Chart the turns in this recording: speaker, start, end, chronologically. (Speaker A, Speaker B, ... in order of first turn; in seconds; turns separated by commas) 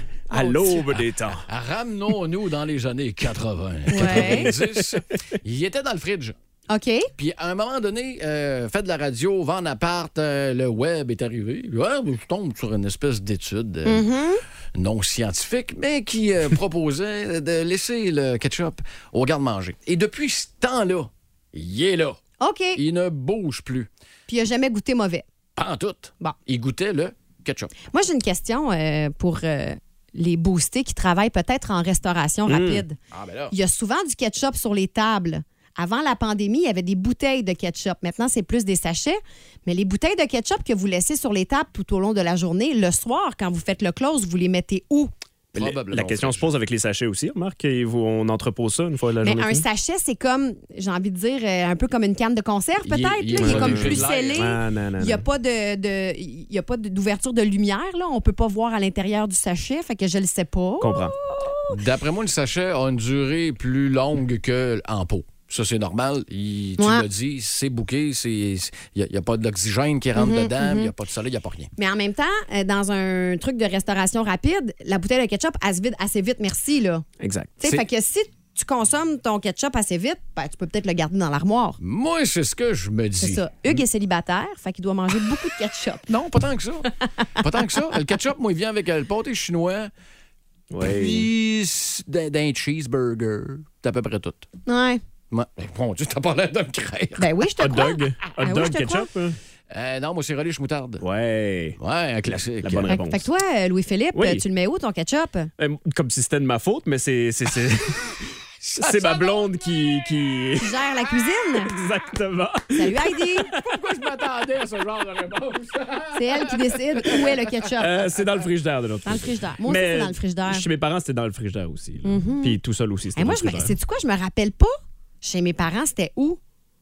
Speaker A: 0.3-1.4, Speaker B: 0.3-0.8, Speaker C: 0.9-6.3, Speaker B: 3.9-4.5, Speaker A: 3.9-4.5, Speaker B: 6.7-7.1, Speaker C: 7.2-14.1, Speaker B: 13.8-14.4, Speaker C: 14.7-22.2, Speaker B: 22.4-22.8, Speaker C: 22.7-23.9, Speaker B: 24.3-25.2, Speaker C: 25.6-27.7, Speaker B: 27.9-33.0, Speaker A: 32.5-32.8, Speaker C: 33.1-33.5, Speaker B: 33.5-45.1, Speaker C: 45.5-46.5, Speaker A: 45.5-49.6, Speaker B: 49.2-61.7, Speaker C: 52.8-54.5, Speaker A: 53.4-55.2, Speaker A: 60.8-61.1, Speaker C: 61.7-71.7, Speaker B: 66.8-67.0, Speaker B: 70.2-70.9, Speaker B: 71.8-77.0, Speaker A: 77.2-77.6, Speaker B: 77.6-81.8, Speaker C: 81.8-83.4, Speaker B: 83.2-86.0, Speaker C: 86.1-86.9, Speaker C: 87.4-89.9, Speaker A: 90.7-91.3, Speaker C: 90.8-94.5, Speaker B: 94.7-95.0, Speaker C: 95.3-97.2, Speaker B: 97.2-99.1, Speaker A: 97.6-99.3, Speaker C: 99.7-101.0, Speaker A: 101.0-101.8, Speaker C: 101.8-102.9, Speaker A: 102.6-103.3, Speaker B: 102.9-105.5, Speaker A: 104.1-104.4, Speaker A: 105.6-108.2, Speaker C: 108.6-109.4, Speaker A: 108.8-110.7, Speaker B: 110.6-111.7, Speaker A: 111.6-113.0, Speaker B: 112.8-113.5, Speaker C: 113.5-117.3, Speaker B: 116.2-117.9, Speaker A: 117.8-123.7, Speaker C: 118.2-118.4, Speaker B: 119.0-120.7, Speaker B: 122.0-122.6, Speaker B: 123.1-126.4